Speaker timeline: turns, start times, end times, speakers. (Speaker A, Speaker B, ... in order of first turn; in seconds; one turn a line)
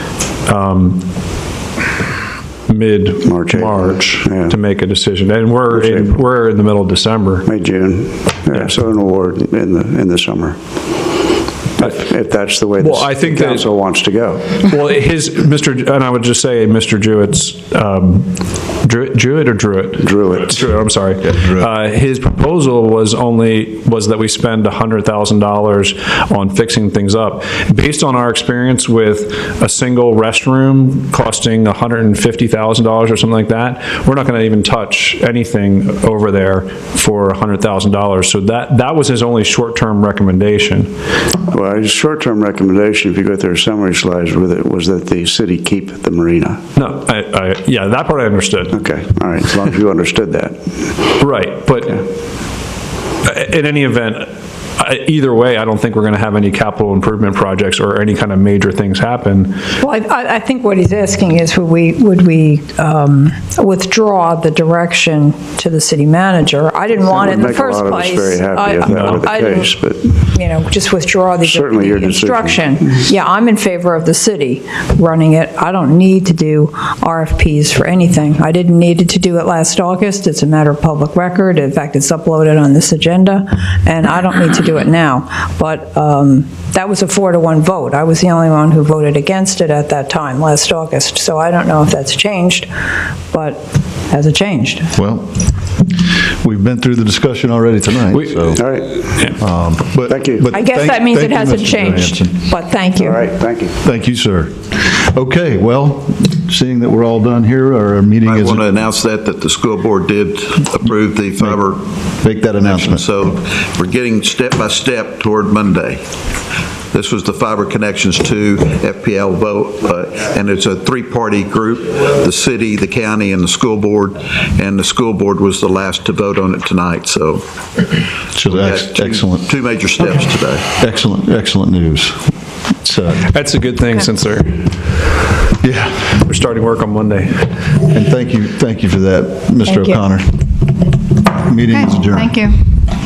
Speaker A: 0.5-1.0
Speaker A: 2.7-7.5
Speaker B: 3.2-4.6
Speaker B: 5.7-6.2
Speaker B: 7.5-11.0
Speaker B: 11.8-14.7
Speaker A: 12.8-13.7
Speaker A: 14.6-18.3
Speaker A: 18.8-40.9
Speaker B: 20.0-20.7
Speaker B: 41.5-46.6
Speaker A: 46.8-48.8
Speaker B: 48.7-51.1
Speaker A: 51.2-52.0
Speaker A: 53.2-59.6
Speaker C: 59.8-92.7
Speaker B: 66.9-70.2
Speaker A: 68.8-69.2
Speaker B: 71.4-73.0
Speaker C: 93.3-94.9
Speaker D: 95.0-95.4
Speaker D: 96.4-102.5
Speaker B: 98.5-99.2
Speaker B: 100.1-100.5
Speaker C: 100.5-103.2
Speaker B: 103.0-103.8
Speaker D: 103.8-108.6
Speaker E: 108.2-111.8
Speaker D: 112.2-113.0
Speaker E: 112.6-116.0
Speaker E: 116.9-127.5
Speaker D: 128.4-129.5
Speaker E: 128.4-130.7
Speaker D: 130.7-132.3
Speaker D: 132.8-133.2
Speaker A: 133.2-134.8
Speaker D: 135.6-136.1
Speaker A: 136.2-137.5
Speaker D: 137.9-140.5
Speaker C: 139.7-140.0
Speaker D: 141.2-142.6